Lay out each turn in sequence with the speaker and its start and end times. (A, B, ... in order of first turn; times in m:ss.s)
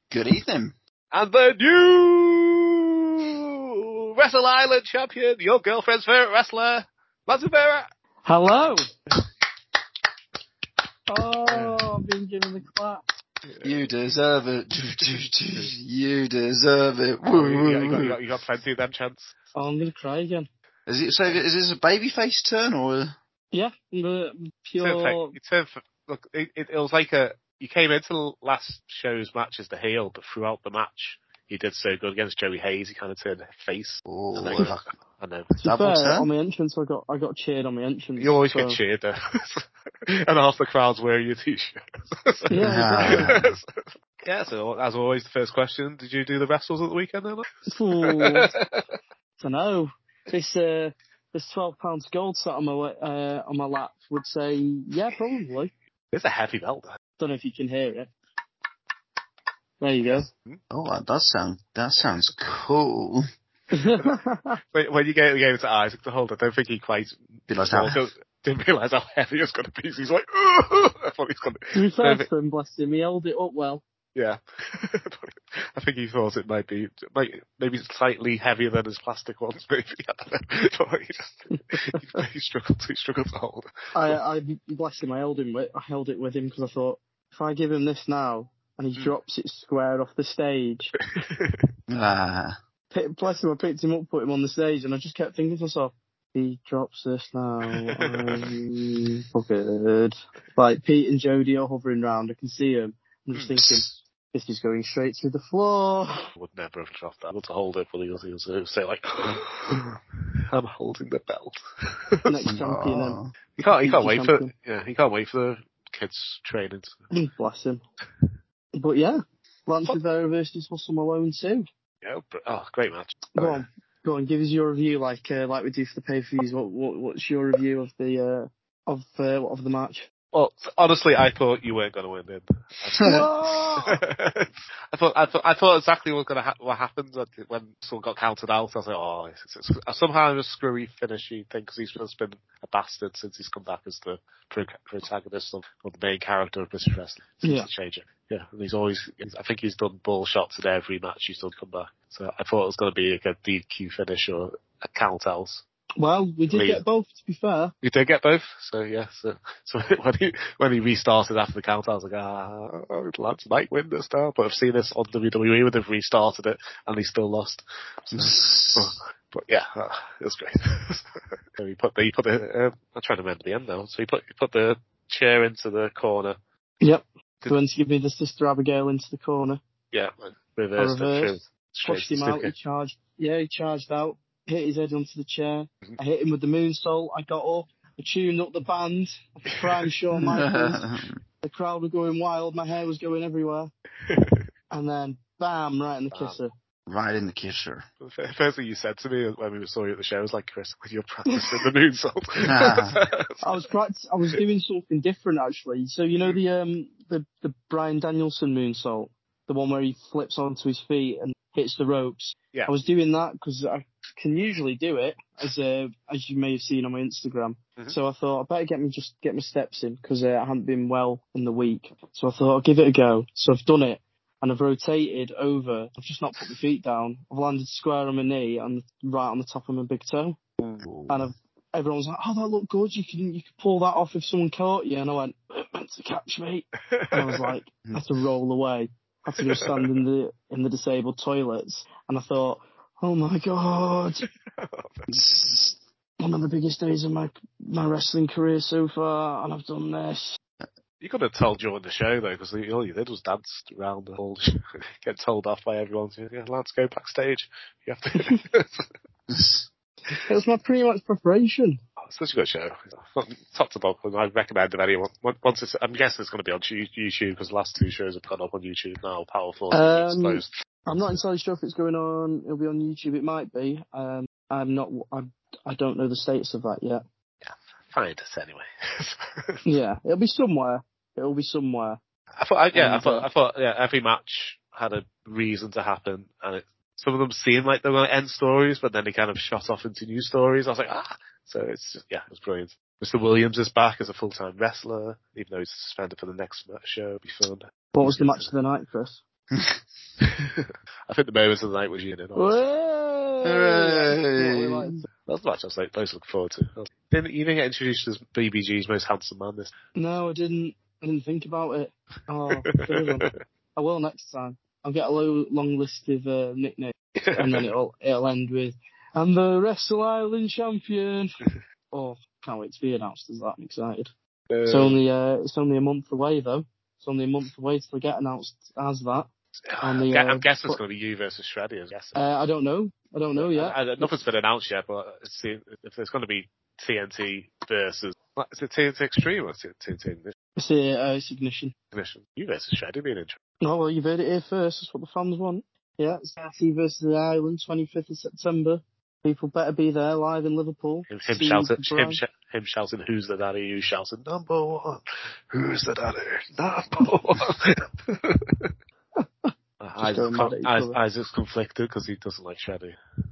0:00.1-0:00.8 A
0:01.1-0:07.9 B
0:08.2-0:08.9 C
0:11.1-0:13.0 C
0:11.5-0:11.9 B
0:13.5-0:13.9 B
0:13.6-0:18.2 A
0:17.3-0:19.4 B
0:19.6-0:20.5 C
0:20.9-0:23.2 A
0:23.5-0:25.4 C
0:24.8-0:35.5 B
0:34.0-0:34.7 A
0:35.6-0:38.8 C
0:35.6-0:36.3 A
0:38.2-0:47.5 B
0:42.5-0:43.3 C
0:42.6-0:43.5 A
0:47.7-0:48.5 C
0:48.0-0:48.8 B
0:49.4-0:55.7 C
0:56.1-0:57.0 B
0:57.2-0:58.1 C
0:59.8-1:00.3 C
1:00.1-1:00.6 B
1:00.7-1:03.2 A
1:03.7-1:04.6 C
1:04.7-1:12.3 B
1:07.5-1:08.0 A
1:11.8-1:13.8 C
1:14.2-1:24.1 B
1:23.9-1:30.9 C
1:31.2-1:31.7 B
1:31.9-1:32.5 A
1:32.9-1:46.2 C
1:37.7-1:38.5 B
1:43.3-1:43.6 B
1:43.6-1:43.9 A
1:46.4-1:50.0 B
1:50.5-1:52.1 B
1:52.2-1:54.5 C
1:52.4-1:53.4 A
1:53.6-1:57.0 B
1:57.1-1:57.8 C
1:58.8-2:01.6 C
2:02.0-2:03.6 B
2:03.4-2:10.0 C
2:10.3-2:35.6 B
2:13.0-2:13.2 A
2:13.0-2:14.0 C
2:27.4-2:27.7 C
2:36.0-2:37.7 C
2:36.5-2:36.8 B
2:37.8-2:56.4 B
2:48.1-2:49.0 A
2:56.8-2:59.6 C
2:59.9-3:02.5 B
3:00.8-3:10.8 C
3:10.2-3:11.2 A
3:11.4-3:13.7 C
3:14.1-3:14.4 B
3:14.7-3:16.5 C
3:16.1-3:16.4 B
3:16.9-3:17.8 A
3:18.0-3:23.3 B
3:22.4-3:23.0 A
3:23.4-3:50.4 C
3:50.8-3:51.3 A
3:51.1-4:04.2 C
3:56.9-3:57.5 B
3:59.4-3:59.8 B
4:04.5-4:05.5 B
4:05.1-4:05.8 A
4:06.2-4:10.4 C
4:11.0-4:18.9 B
4:19.3-4:19.7 A
4:20.3-4:21.8 C
4:22.0-4:30.5 B
4:29.7-4:37.0 C
4:37.4-4:39.6 B
4:39.6-4:42.0 C
4:42.4-4:58.5 B
4:42.8-4:43.3 C
4:57.9-4:59.2 C
4:59.5-4:59.8 A
5:00.2-5:02.6 B
5:02.3-5:05.0 C
5:03.4-5:05.0 A
5:05.2-5:09.7 B
5:10.0-5:21.3 C
5:12.8-5:13.3 B
5:17.2-5:17.6 B
5:21.9-5:24.1 C
5:24.5-5:25.0 B
5:24.6-5:29.3 C
5:29.6-5:32.2 B
5:29.8-5:30.8 C
5:32.1-5:34.1 C
5:33.4-5:40.3 B
5:40.6-5:41.7 C
5:41.9-5:43.4 B
5:43.6-5:52.2 C
5:51.1-5:58.7 B
5:59.2-6:01.0 C
5:59.8-6:03.0 B